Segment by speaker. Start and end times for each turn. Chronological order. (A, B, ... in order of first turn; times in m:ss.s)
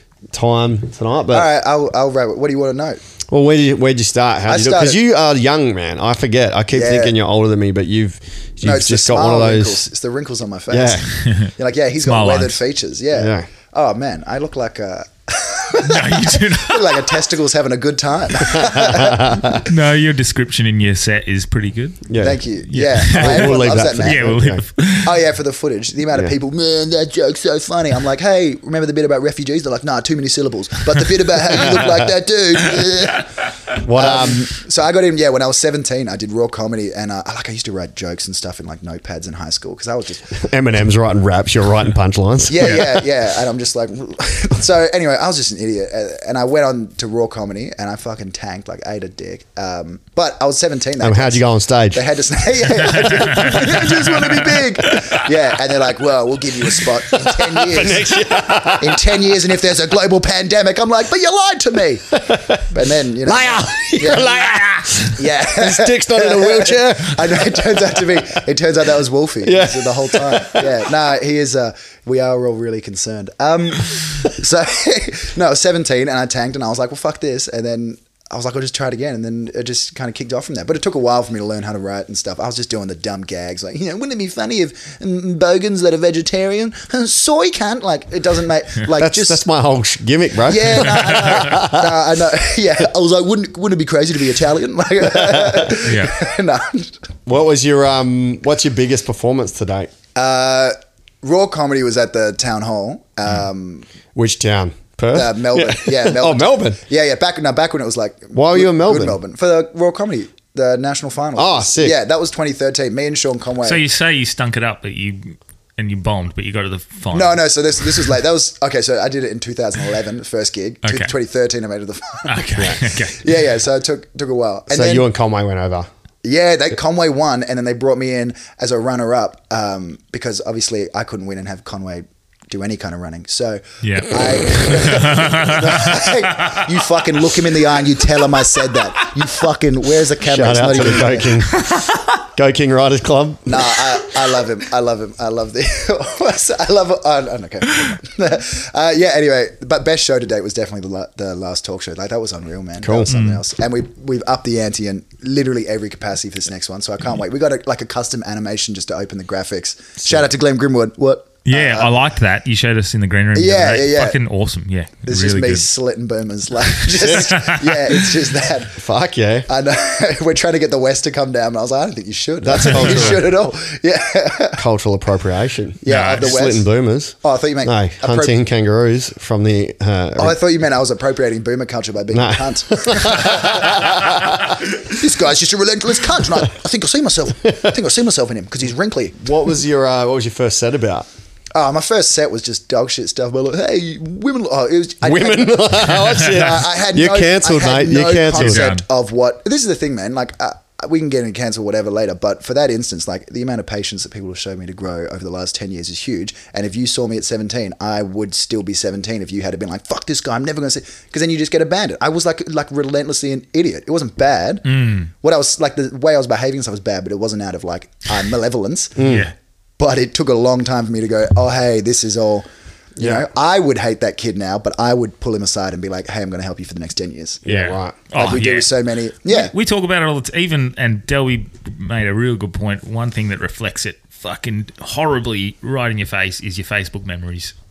0:00.3-0:01.5 A
0:01.3-0:03.0 B
0:03.3-0:09.8 A
0:04.5-0:05.0 B
0:06.7-0:07.2 B
0:08.6-0:19.7 B
0:10.7-0:11.1 A
0:11.1-0:12.6 C
0:13.2-0:13.5 A
0:15.8-0:17.1 C
0:18.4-0:19.6 A
0:19.6-0:22.1 C
0:22.1-0:22.4 A
0:22.2-0:24.4 B
0:22.7-0:25.2 C
0:23.0-0:24.6 A
0:25.0-0:33.3 B
0:33.8-0:34.5 A
0:33.8-0:40.4 B
0:40.4-0:43.0 A
0:42.5-1:04.4 B
0:51.0-0:52.0 A
0:53.0-0:54.4 C
0:57.1-0:59.2 A
1:02.1-1:02.7 A
1:03.2-1:08.3 A
1:05.1-1:29.4 B
1:09.4-1:10.8 A
1:29.0-1:32.0 A
1:30.5-1:37.0 B
1:35.0-1:35.8 A
1:35.8-1:36.1 C
1:37.3-1:39.9 A
1:40.2-1:43.9 B
1:44.2-1:46.8 A
1:45.1-1:53.8 B
1:48.3-1:49.2 A
1:51.4-1:52.0 A
1:53.6-1:57.5 C
1:57.1-2:05.1 B
2:00.8-2:01.1 C
2:02.3-2:03.2 C
2:04.7-2:05.9 A
2:06.2-2:21.5 B
2:13.8-2:16.6 C
2:20.2-2:23.8 A
2:23.5-2:42.0 B
2:32.8-2:33.2 A
2:33.1-2:33.4 C
2:41.5-2:45.7 C
2:43.4-2:44.2 B
2:45.1-2:48.8 B
2:47.0-2:47.3 A
2:47.0-2:47.9 C
2:48.8-2:49.5 A
2:49.5-2:54.6 B
2:52.4-2:53.3 A
2:54.6-3:00.4 A
2:55.8-2:56.7 B
2:55.9-2:56.3 C
2:57.2-2:58.4 B
3:00.2-3:09.3 B
3:02.1-3:04.6 A
3:09.2-3:11.1 A
3:11.5-3:39.1 B
3:15.0-3:18.8 A
3:16.0-3:16.4 C
3:18.4-3:18.8 C
3:34.7-3:35.1 C
3:39.0-3:39.3 A
3:39.0-3:39.3 C
3:39.8-3:42.5 B
3:43.0-3:47.4 B
3:43.0-3:43.2 A
3:47.4-3:48.0 A
3:47.5-3:48.7 C
3:48.1-3:49.5 B
3:49.2-3:57.5 C